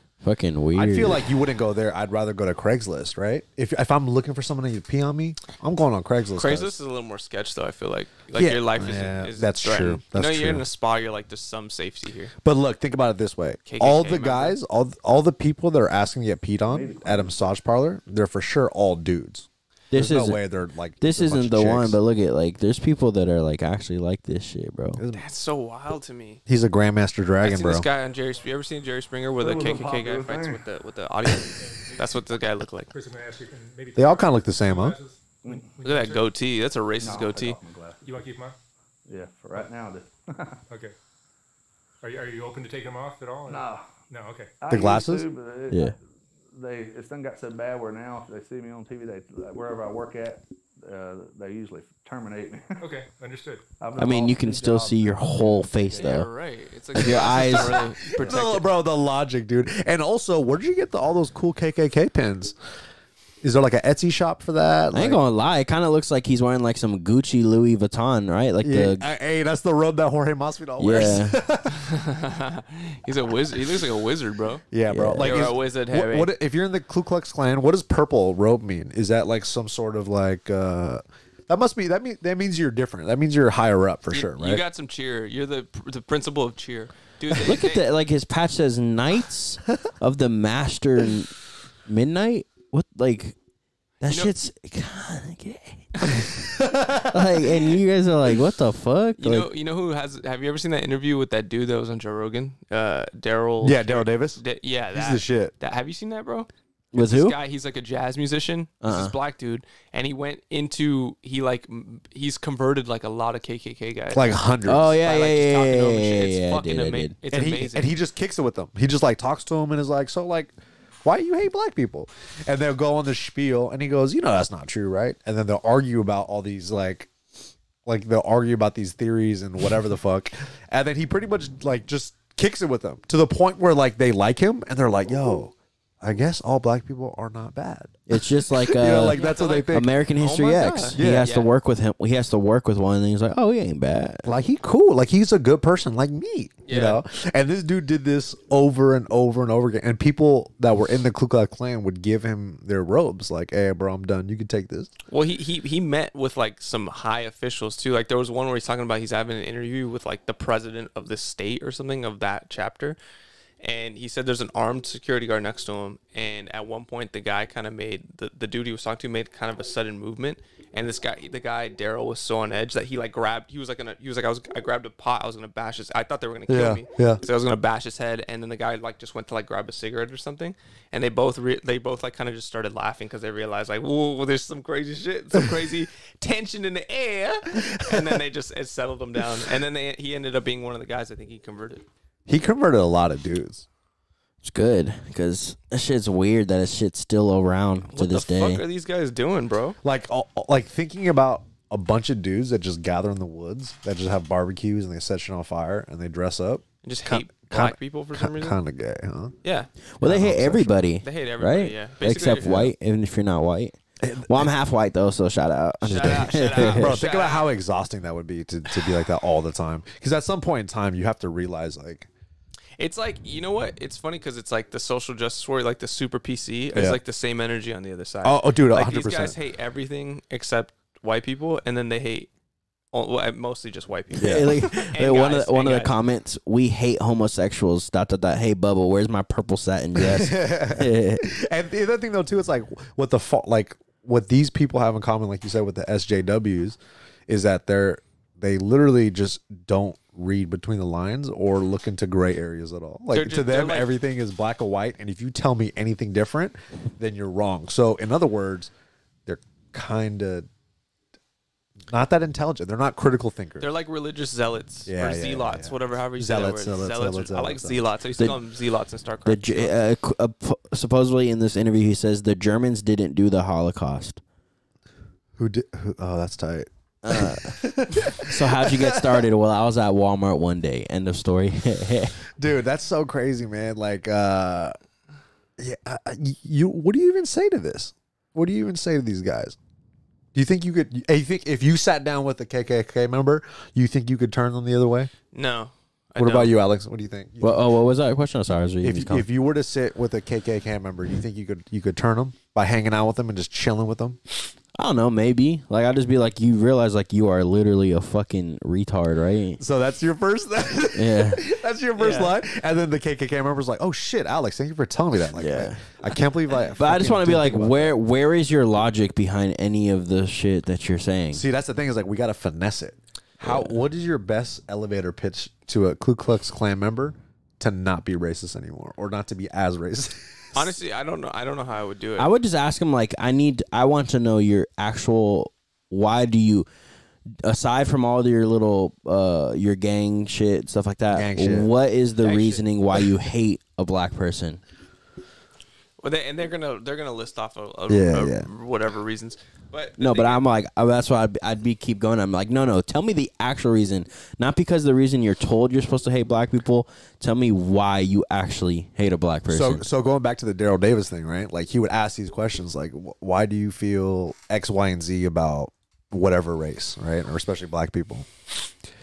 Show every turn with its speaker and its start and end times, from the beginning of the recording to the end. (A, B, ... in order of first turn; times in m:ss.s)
0:00.2-0:01.3 A
0:00.7-0:06.7 B
0:06.4-0:12.3 C
0:08.3-0:10.6 B
0:12.4-0:22.0 B
0:13.7-0:14.6 C
0:16.7-0:17.4 D
0:19.9-0:20.4 A
0:21.0-0:25.0 A
0:25.0-0:25.2 B
0:25.1-0:26.4 C
0:26.5-0:27.9 B
0:27.4-0:32.9 C
0:29.4-0:30.7 D
0:31.6-0:32.2 E
0:32.9-0:36.3 E
0:34.0-0:35.0 B
0:35.4-0:35.7 D
0:35.8-0:37.6 C
0:37.0-0:38.2 D
0:38.0-0:38.6 E
0:39.1-0:40.6 D
0:40.7-0:41.0 E
0:42.0-0:44.6 E
0:43.5-0:43.9 D
0:44.6-0:46.0 D
0:44.7-0:45.3 B
0:45.7-0:46.0 A
0:46.5-0:52.9 D
0:52.8-0:53.7 E
0:53.8-0:56.2 D
0:54.0-0:56.3 A
0:55.9-0:58.7 C
0:57.0-0:57.9 A
0:57.1-1:02.6 B
1:03.4-1:05.2 B
1:04.9-1:09.1 A
1:08.6-1:11.8 B
1:10.8-1:11.4 A
1:11.8-1:14.6 C
1:14.7-1:24.6 B
1:14.9-1:15.5 A
1:15.2-1:16.3 C
1:24.1-1:27.8 C
1:27.3-1:31.4 A
1:31.9-1:33.4 A
1:34.0-1:36.4 A
1:34.0-1:34.3 C
1:36.4-1:37.5 B
1:37.0-1:39.5 A
1:39.2-1:54.4 C
1:43.6-1:44.4 B
1:44.9-1:45.5 B
1:46.9-1:47.4 A
1:48.8-1:49.2 A
1:54.1-1:55.0 B
1:54.7-1:57.2 A
1:55.0-1:57.9 C
1:57.3-2:00.5 B
2:01.0-2:07.1 B
2:07.8-2:19.9 B
2:18.1-2:24.3 A
2:19.1-2:21.5 C
2:21.0-2:21.3 B
2:24.2-2:34.9 B
2:26.7-2:27.0 C
2:35.1-2:43.0 C
2:43.6-3:11.9 C
2:56.5-2:57.2 B
3:07.5-3:08.2 B
3:12.3-3:13.7 B
3:14.4-3:18.6 A
3:17.9-3:19.8 C
3:19.8-3:29.3 B
3:26.8-3:28.6 C
3:29.4-3:29.7 C
3:30.0-3:37.0 A
3:30.0-3:30.8 B
3:31.0-3:32.7 C
3:34.0-3:34.5 B
3:35.8-3:37.5 C
3:35.8-3:42.1 B
3:42.8-3:52.3 C
3:46.7-3:47.0 B
3:48.2-3:49.4 B
3:52.9-3:55.9 C
3:54.1-4:01.3 A
3:54.2-3:54.6 B
4:00.0-4:18.7 B
4:13.1-4:14.0 C
4:19.3-4:20.5 B
4:21.9-4:23.7 B
4:23.6-4:29.7 C
4:24.9-4:27.9 B
4:29.2-4:34.2 A
4:35.4-4:39.3 B
4:37.0-4:42.2 A
4:42.4-4:44.8 B
4:45.6-4:49.6 B
4:50.3-4:55.1 B
4:55.3-4:56.6 C
4:56.2-4:57.7 B
4:57.4-4:59.2 A
4:58.8-5:04.2 B
5:04.8-5:09.6 A
5:09.6-5:18.0 B
5:11.0-5:11.4 A
5:12.0-5:12.3 C
5:15.4-5:16.0 A
5:16.7-5:21.4 A
5:21.3-5:30.7 B
5:23.4-5:23.7 A
5:30.5-5:32.3 C
5:32.2-5:36.7 A
5:37.4-5:44.6 A
5:41.1-5:41.7 B
5:42.2-5:42.6 C
5:46.0-5:50.4 C
5:47.9-5:48.5 B
5:50.0-5:59.8 A
5:59.5-6:08.7 B